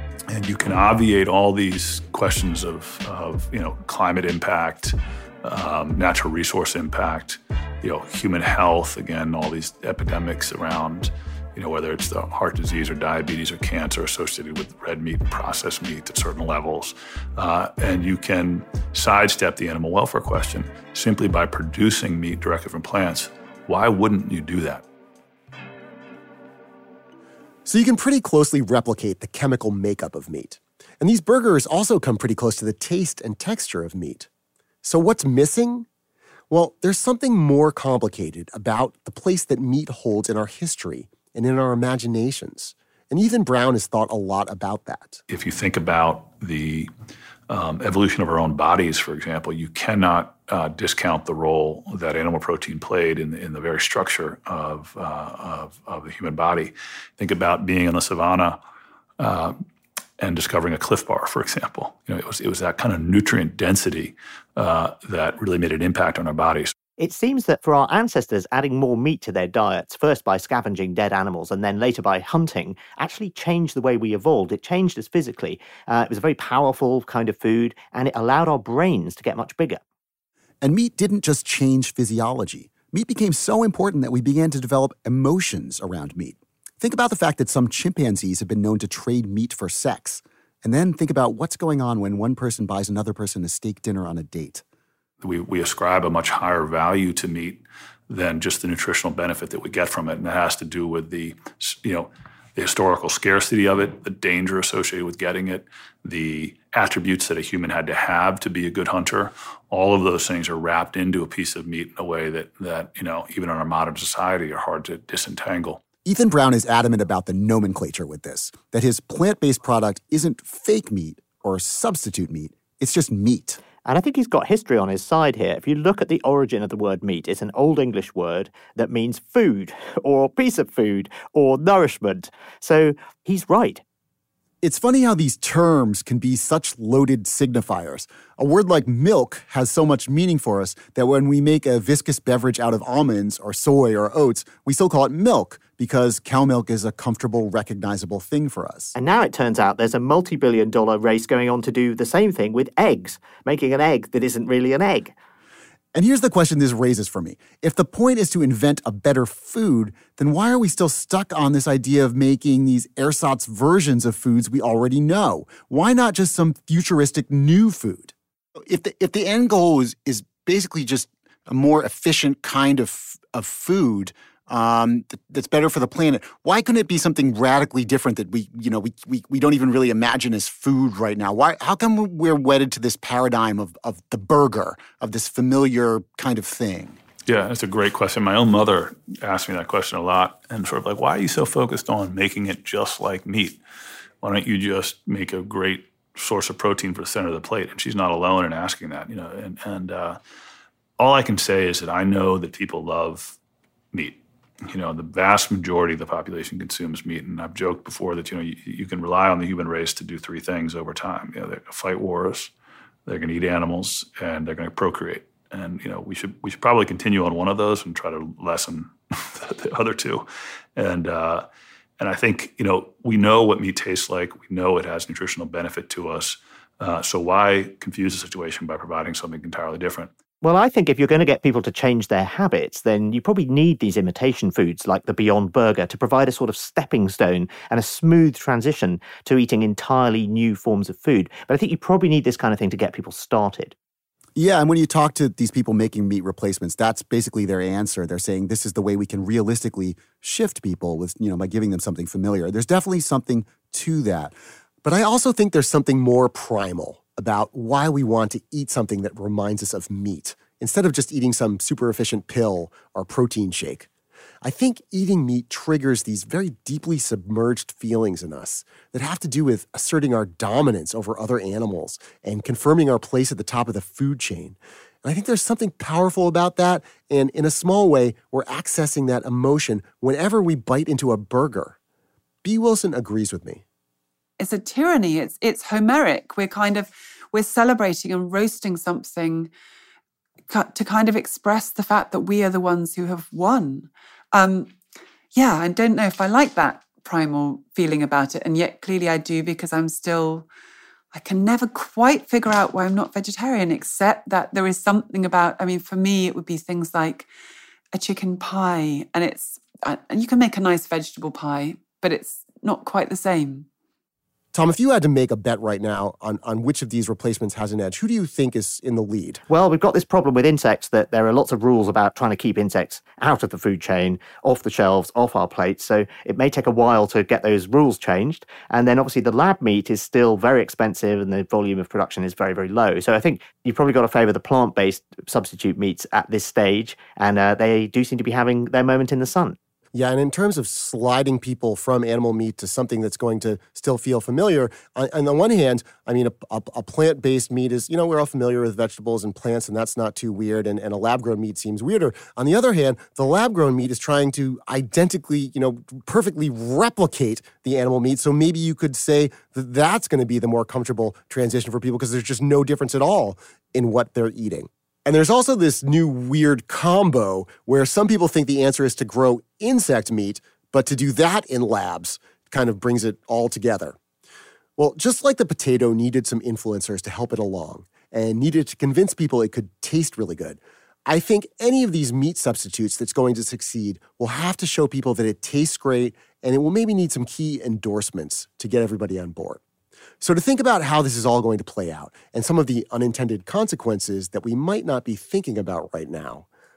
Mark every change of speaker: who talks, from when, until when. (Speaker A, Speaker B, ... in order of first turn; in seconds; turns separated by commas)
Speaker A: 0.3-24.8, Speaker B: 27.6-34.3, Speaker B: 34.8-35.9, Speaker B: 36.5-45.2, Speaker A: 45.3-46.9, Speaker A: 47.5-58.6, Speaker A: 59.2-59.6, Speaker A: 60.2-66.7, Speaker C: 67.0-79.8, Speaker D: 80.6-94.6, Speaker A: 95.2-115.8, Speaker D: 116.0-123.6, Speaker C: 123.8-133.8, Speaker D: 134.6-148.9, Speaker C: 148.9-155.1, Speaker D: 155.9-168.1, Speaker D: 168.7-187.0, Speaker A: 187.2-193.6, Speaker A: 194.2-200.2, Speaker A: 201.0-203.4, Speaker A: 203.9-212.5, Speaker A: 213.1-221.4, Speaker A: 222.0-230.1, Speaker C: 230.4-243.7, Speaker D: 244.4-254.3, Speaker B: 254.8-263.9, Speaker B: 264.4-281.7, Speaker B: 282.4-283.6, Speaker E: 284.4-289.5, Speaker E: 290.5-294.7, Speaker E: 295.3-300.5, Speaker E: 301.1-307.3, Speaker E: 307.9-313.7, Speaker B: 314.5-319.4, Speaker C: 319.5-339.6, Speaker B: 339.9-374.0, Speaker B: 374.8-389.6, Speaker B: 390.2-396.5